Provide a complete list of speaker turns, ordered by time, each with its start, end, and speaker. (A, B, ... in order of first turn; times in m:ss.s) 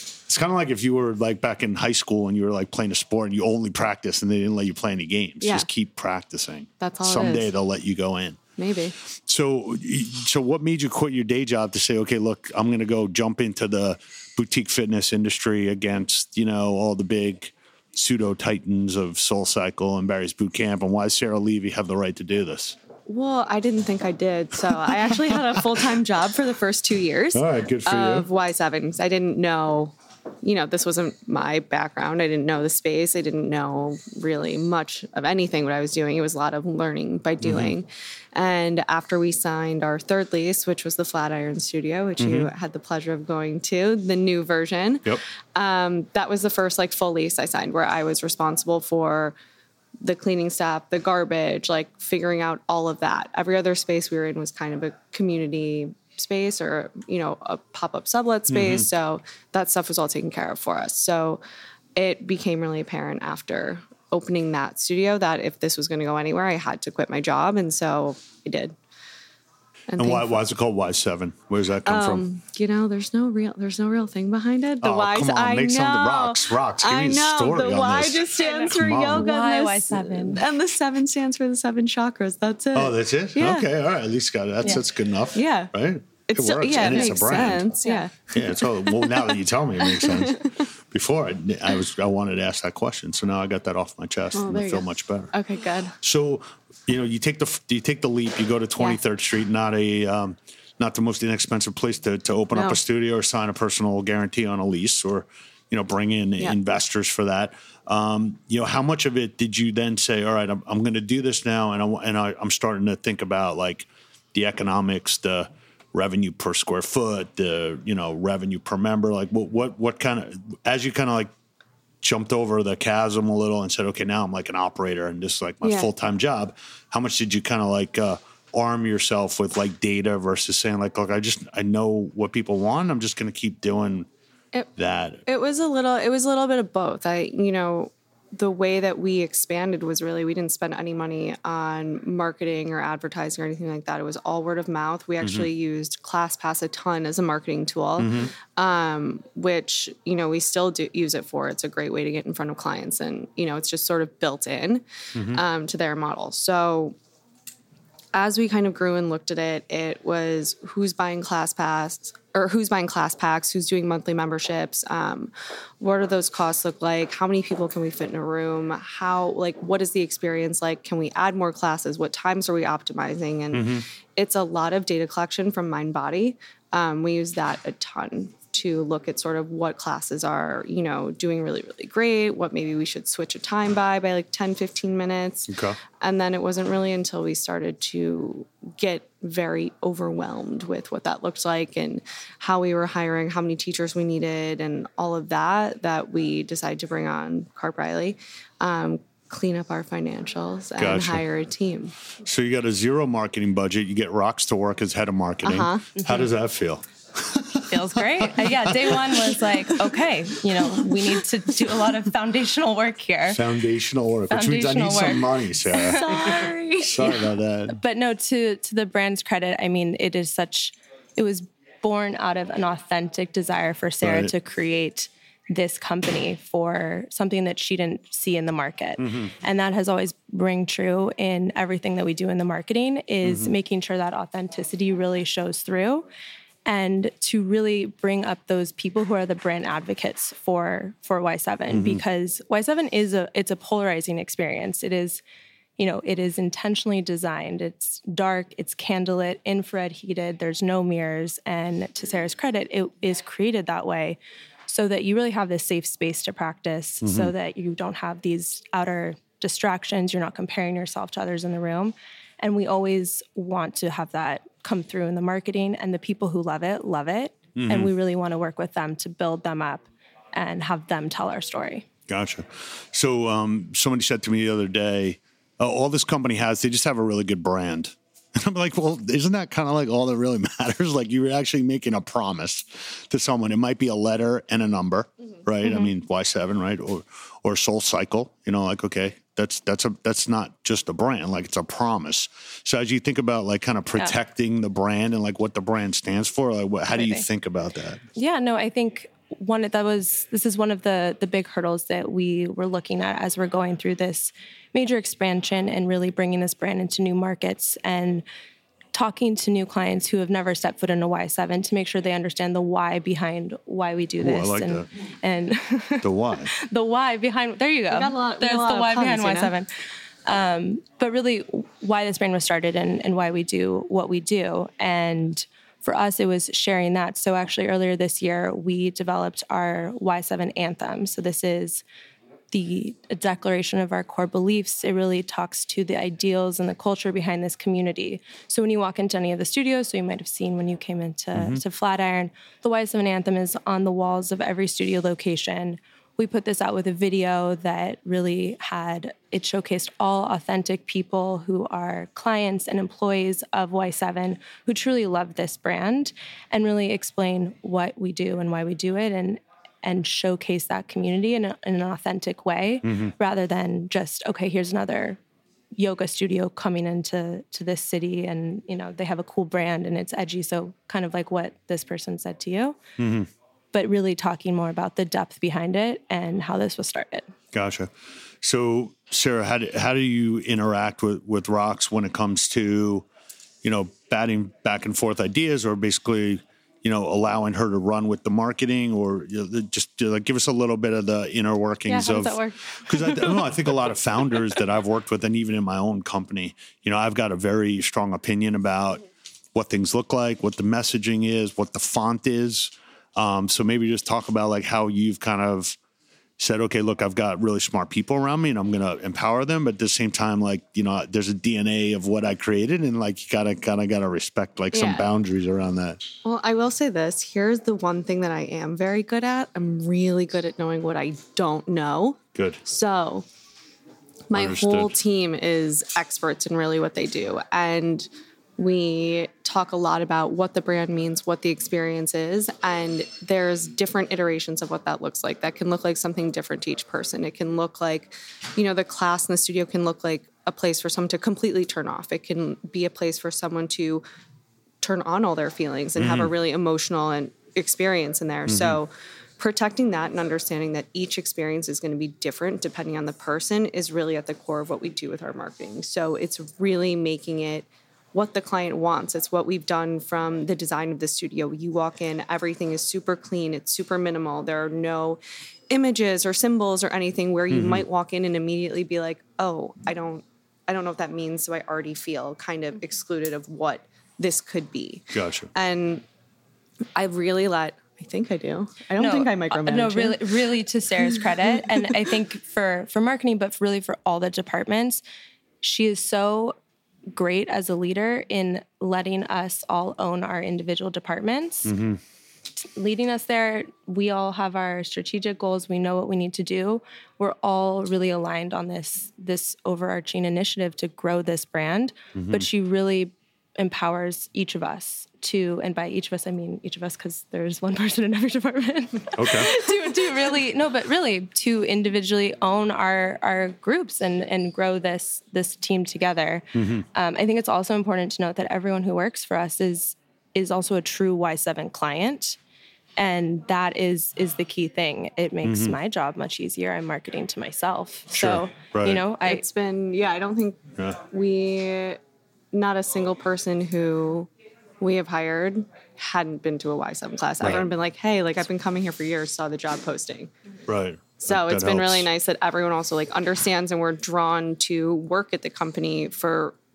0:00.3-0:08.4 A
0:05.4-0:05.7 B
0:06.8-0:07.5 B
0:08.6-0:09.0 B
0:09.2-0:22.8 A
0:23.1-0:49.4 B
0:27.3-0:28.3 A
0:37.4-0:37.8 A
0:42.2-0:42.5 A
0:50.0-1:01.4 B
0:58.5-0:58.9 A
1:02.0-1:08.8 B
1:09.9-1:10.4 B
1:10.0-1:12.2 A
1:11.9-1:23.7 B
1:14.8-1:19.3 A
1:18.4-1:20.4 C
1:22.7-1:27.7 A
1:25.4-1:25.7 B
1:26.3-1:30.7 B
1:26.9-1:28.0 C
1:28.3-1:35.3 A
1:34.3-1:36.0 B
1:36.0-2:01.3 A
1:42.5-1:42.8 B
2:02.0-2:14.1 A
2:05.6-2:05.9 B
2:14.8-2:15.2 A
2:15.3-2:37.0 B
2:25.2-2:25.5 A
2:28.0-2:28.3 A
2:35.2-2:35.4 A
2:38.1-3:05.5 B
2:53.5-2:53.8 A
3:05.5-3:05.8 A
3:06.0-3:22.0 B
3:20.8-3:21.2 A
3:22.2-3:30.0 A
3:25.4-3:26.2 B
3:27.7-3:33.4 C
3:30.7-3:31.1 A
3:33.3-3:37.8 A
3:34.3-3:56.1 C
3:35.8-3:37.0 B
3:44.0-3:44.3 A
3:49.0-3:49.3 A
3:53.2-3:53.6 A
3:56.7-4:05.2 C
4:01.7-4:02.0 A
4:05.8-4:31.9 C
4:17.0-4:17.3 A
4:27.6-4:27.9 A
4:32.1-4:58.0 A
4:56.9-4:57.2 C
4:58.2-5:08.2 C
5:08.9-5:19.7 C
5:14.2-5:14.9 A
5:16.0-5:16.5 A
5:17.9-5:19.5 B
5:20.3-5:31.8 C
5:32.5-6:05.2 C
5:41.4-5:41.6 A
6:02.8-6:03.1 A
6:05.8-6:12.8 C
6:13.0-6:13.3 A
6:13.7-6:17.3 C
6:17.5-6:17.9 A
6:18.4-6:23.1 A
6:23.6-6:39.0 A
6:31.9-6:33.4 C
6:39.6-6:45.8 A
6:46.4-6:56.0 A
6:54.7-6:55.1 B
6:56.2-7:03.3 B
7:02.4-7:02.6 A
7:04.3-7:24.0 B
7:04.3-7:04.9 A
7:24.8-7:56.0 B
7:26.0-7:26.3 A
7:28.5-7:28.8 A
7:47.5-7:47.8 A
7:55.1-7:55.5 A
7:57.0-8:00.3 B
7:59.0-8:05.0 C
8:01.5-8:01.9 B
8:05.6-8:06.6 C
8:07.1-8:11.8 C
8:11.7-8:12.0 A
8:12.6-8:42.4 C
8:22.2-8:22.5 A
8:29.2-8:29.5 A
8:36.6-8:36.8 A
8:43.0-8:49.4 C
8:45.4-8:45.8 A
8:48.1-8:49.0 A
8:49.2-8:52.0 B
8:52.5-8:54.3 B
8:54.8-9:00.3 B
8:57.4-8:57.7 A
9:00.7-9:02.1 A
9:01.2-9:06.6 B